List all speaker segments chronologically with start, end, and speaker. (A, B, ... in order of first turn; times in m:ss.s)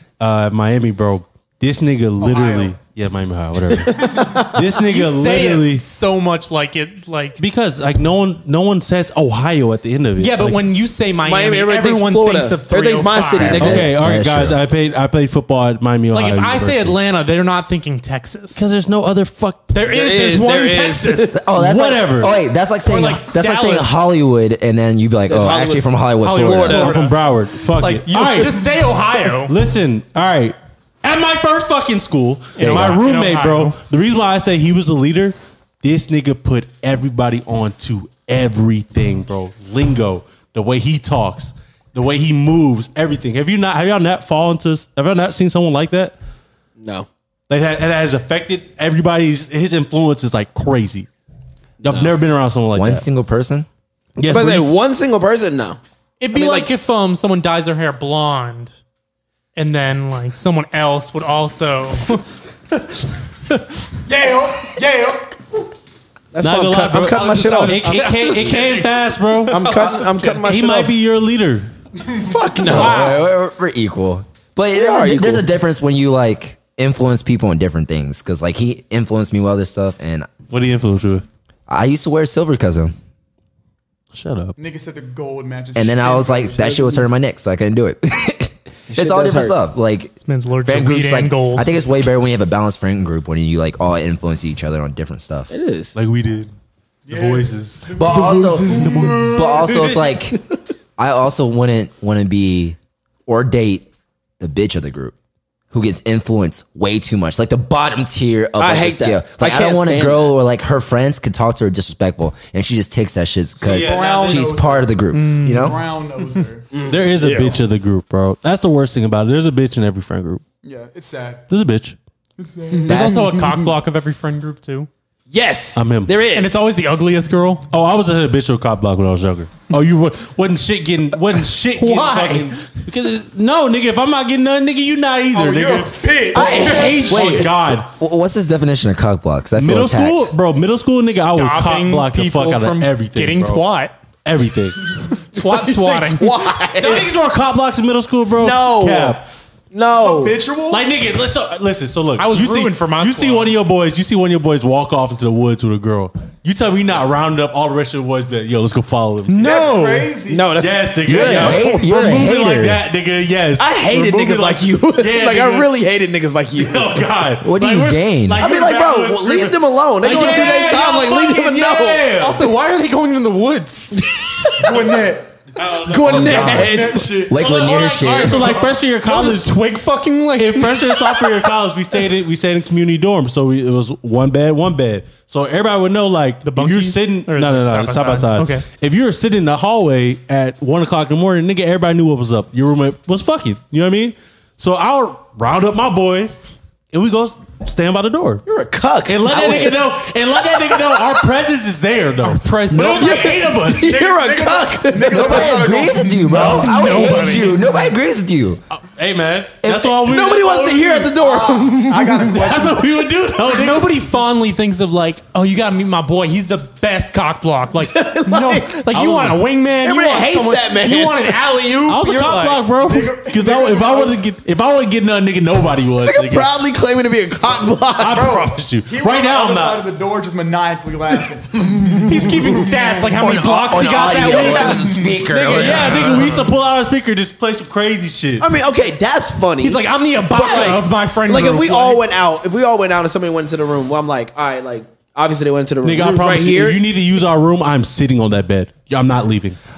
0:00.2-0:05.8 A
0:02.2-0:02.8 B
0:03.8-0:04.6 C
0:04.7-0:07.4 D
0:07.4-0:10.7 A
0:10.2-0:13.8 D
0:11.2-0:13.9 C
0:13.4-0:14.6 E
0:13.6-0:17.0 A
0:16.1-0:18.6 D
0:18.6-0:19.7 A
0:19.7-0:21.3 D
0:19.8-0:21.4 C
0:21.3-0:26.9 E
0:21.6-0:22.4 A
0:22.8-0:24.0 D
0:25.3-0:27.0 C
0:26.2-0:27.2 D
0:26.5-0:28.7 A
0:27.8-0:29.5 D
0:29.2-0:46.2 A
0:32.6-0:33.8 D
0:32.6-0:33.0 E
0:46.8-0:47.1 C
0:47.5-0:51.1 A
0:51.8-0:53.0 A
0:51.9-0:52.1 C
0:52.8-0:53.7 E
0:54.2-0:54.7 A
0:54.2-0:55.8 C
0:56.2-0:58.7 D
0:56.3-0:56.7 C
0:59.6-1:02.2 D
1:04.1-1:05.6 B
1:06.3-1:08.6 C
1:06.4-1:11.7 A
1:07.2-1:08.9 D
1:09.5-1:10.9 C
1:09.5-1:10.4 D
1:12.0-1:12.8 B
1:12.2-1:13.2 C
1:12.7-1:13.2 D
1:12.7-1:20.3 E
1:14.7-1:15.4 C
1:20.5-1:21.2 A
1:21.7-1:23.0 E
1:24.1-1:24.6 A
1:24.6-1:26.8 B
1:25.8-1:30.1 E
1:28.9-1:29.6 C
1:30.2-1:31.7 D
1:30.6-1:35.5 E
1:35.5-1:35.9 C
1:36.0-1:36.5 A
1:37.1-1:39.7 B
1:37.1-1:37.9 A
1:38.0-1:40.4 E
1:38.3-1:39.4 C
1:38.8-1:40.0 A
1:41.0-1:43.9 E
1:44.4-1:45.1 E
1:45.7-1:55.8 E
1:48.6-1:50.3 C
1:53.6-1:56.8 B
1:53.6-1:54.6 A
1:55.1-1:55.8 D
1:56.7-1:57.6 C
1:56.9-2:00.4 A
2:00.6-2:01.5 B
2:01.5-2:02.0 A
2:02.4-2:03.0 B
2:02.7-2:03.7 C
2:02.9-2:04.9 D
2:05.3-2:06.6 C
2:05.8-2:06.1 A
2:06.3-2:07.6 D
2:07.7-2:17.9 A
2:11.8-2:12.6 D
2:15.3-2:17.5 B
2:16.3-2:17.4 C
2:16.4-2:20.3 E
2:19.6-2:23.6 A
2:21.3-2:24.0 D
2:24.2-2:24.8 A
2:25.1-2:26.3 D
2:25.3-2:27.1 C
2:26.8-2:29.3 A
2:28.4-2:29.2 C
2:29.7-2:30.4 C
2:29.9-2:30.8 B
2:30.7-2:39.6 A
2:32.2-2:33.5 D
2:39.3-2:40.1 D
2:39.4-2:40.6 B
2:40.3-2:41.9 C
2:40.6-2:45.7 A
2:41.2-2:42.8 E
2:43.6-2:47.1 C
2:46.6-2:52.5 A
2:47.4-2:48.4 E
2:48.4-2:52.1 C
2:50.0-2:50.6 D
2:52.2-2:54.0 D
2:54.0-2:54.9 C
2:54.6-2:58.8 B
2:55.6-2:59.6 A
2:55.8-2:57.2 C
2:57.3-2:58.5 E
2:59.0-3:01.1 D
3:00.4-3:16.4 A
3:06.4-3:08.7 D
3:16.9-3:18.4 A
3:18.5-3:19.8 C
3:19.1-3:24.0 A
3:22.2-3:23.4 D
3:23.0-3:25.6 C
3:23.8-3:27.4 B
3:25.1-3:28.6 E
3:26.3-3:27.6 D
3:28.7-3:31.1 A
3:29.6-3:30.0 E
3:30.0-3:32.4 C
3:31.0-3:33.1 B
3:32.3-3:34.0 A
3:33.4-3:42.6 D
3:37.8-3:38.8 C
3:38.9-3:39.4 A
3:39.8-3:41.3 C
3:41.9-3:46.5 A
3:42.8-3:44.2 B
3:46.0-3:48.3 C
3:48.0-3:49.9 A
3:48.1-3:53.2 B
3:52.1-3:56.4 D
3:53.2-3:56.4 E
3:54.6-3:55.2 B
3:55.3-3:58.5 A
3:58.4-4:06.8 C
3:59.6-4:02.0 D
4:05.8-4:09.6 A